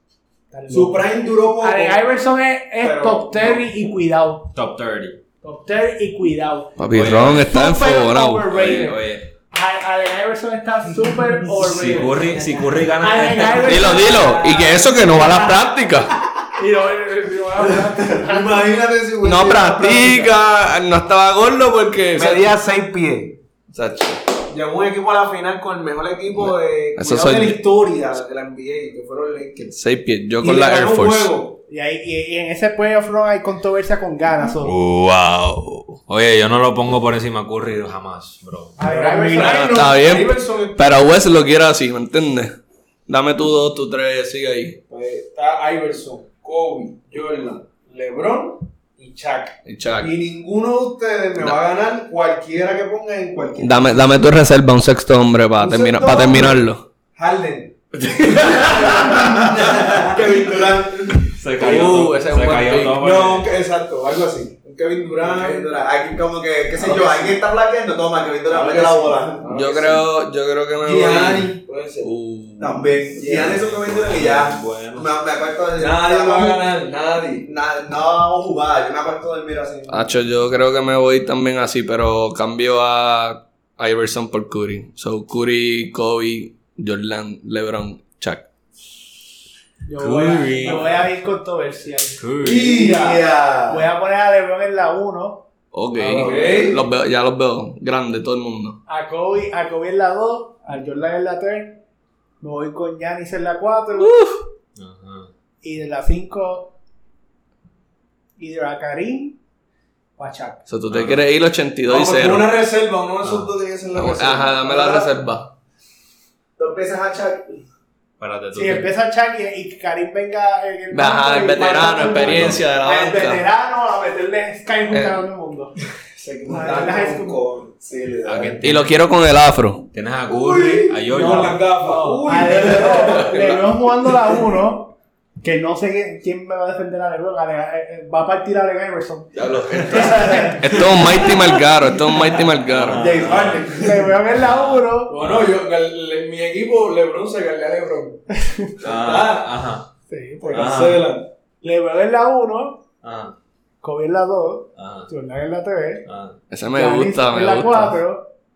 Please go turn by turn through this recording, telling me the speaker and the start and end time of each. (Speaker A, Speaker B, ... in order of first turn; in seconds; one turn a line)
Speaker A: 0.5-4.5
Speaker B: 0.7-2.0
Speaker B: 2.8-3.6
Speaker C: 4.5-5.2
Speaker A: 5.4-12.5
Speaker D: 6.8-8.7
Speaker C: 6.9-7.5
Speaker C: 8.5-9.3
Speaker C: 11.6-14.1
Speaker A: 13.0-15.1
Speaker D: 13.6-16.1
Speaker B: 13.8-15.7
Speaker A: 16.6-18.7
Speaker E: 17.6-20.4
Speaker D: 19.2-22.5
Speaker B: 22.1-23.4
Speaker D: 23.7-24.2
Speaker B: 24.5-29.8
Speaker D: 26.3-27.6
Speaker D: 29.7-31.3
Speaker B: 30.4-31.6
Speaker A: 31.7-34.8
Speaker C: 34.6-35.3
Speaker D: 35.2-36.0
Speaker C: 36.1-38.8
Speaker A: 38.8-39.9
Speaker B: 38.8-41.0
Speaker D: 39.3-44.8
Speaker B: 44.9-54.2
Speaker D: 49.6-50.1
Speaker D: 53.6-56.9
Speaker B: 55.6-56.6
Speaker B: 57.1-60.4
Speaker D: 58.0-58.9
Speaker E: 58.8-61.3
Speaker C: 61.4-63.5
Speaker D: 61.6-63.0
Speaker B: 63.0-65.7
Speaker E: 65.2-69.5
Speaker B: 66.8-67.4
Speaker B: 68.5-70.1
Speaker D: 69.5-73.0
Speaker E: 70.8-71.6
Speaker B: 70.9-72.1
Speaker E: 72.6-76.7
Speaker B: 73.2-73.5
Speaker C: 73.3-75.1
Speaker B: 75.8-77.5
Speaker E: 77.5-80.2
Speaker D: 79.9-88.5
Speaker A: 89.9-92.2
Speaker C: 90.0-91.0
Speaker C: 92.2-92.8
Speaker B: 92.4-93.2
Speaker E: 92.4-93.8
Speaker A: 93.7-95.5
Speaker D: 95.7-98.8
Speaker B: 96.0-96.8
Speaker E: 96.2-96.7
Speaker A: 98.9-101.8
Speaker A: 102.4-104.2
Speaker D: 104.0-104.4
Speaker C: 104.8-105.3
Speaker A: 105.6-106.7
Speaker A: 108.4-109.4
Speaker A: 110.2-110.7
Speaker D: 110.7-112.6
Speaker C: 110.9-111.3
Speaker B: 111.9-115.0
Speaker C: 113.2-113.5
Speaker D: 114.0-115.5
Speaker E: 114.7-115.1
Speaker E: 116.6-117.6
Speaker C: 118.2-118.9
Speaker A: 118.5-125.7
Speaker D: 120.9-123.4
Speaker C: 122.1-122.6
Speaker D: 124.9-125.2
Speaker B: 126.2-127.7
Speaker A: 126.5-127.4
Speaker E: 127.8-128.6
Speaker C: 128.2-128.9
Speaker D: 128.6-129.9
Speaker C: 129.9-131.8
Speaker B: 130.3-133.6
Speaker A: 131.8-141.6
Speaker D: 139.3-143.2
Speaker C: 142.7-143.7
Speaker E: 143.0-143.9
Speaker B: 143.0-143.9
Speaker A: 143.7-145.1
Speaker C: 144.3-145.6
Speaker B: 145.1-148.3
Speaker A: 148.3-148.7
Speaker B: 148.8-149.5
Speaker C: 148.8-149.9
Speaker A: 150.1-150.7
Speaker B: 150.4-151.3
Speaker C: 150.5-151.1
Speaker A: 151.6-152.8
Speaker C: 153.0-153.3
Speaker A: 153.8-156.1
Speaker C: 154.8-155.1
Speaker C: 156.1-156.4
Speaker D: 156.5-158.0
Speaker A: 156.7-158.3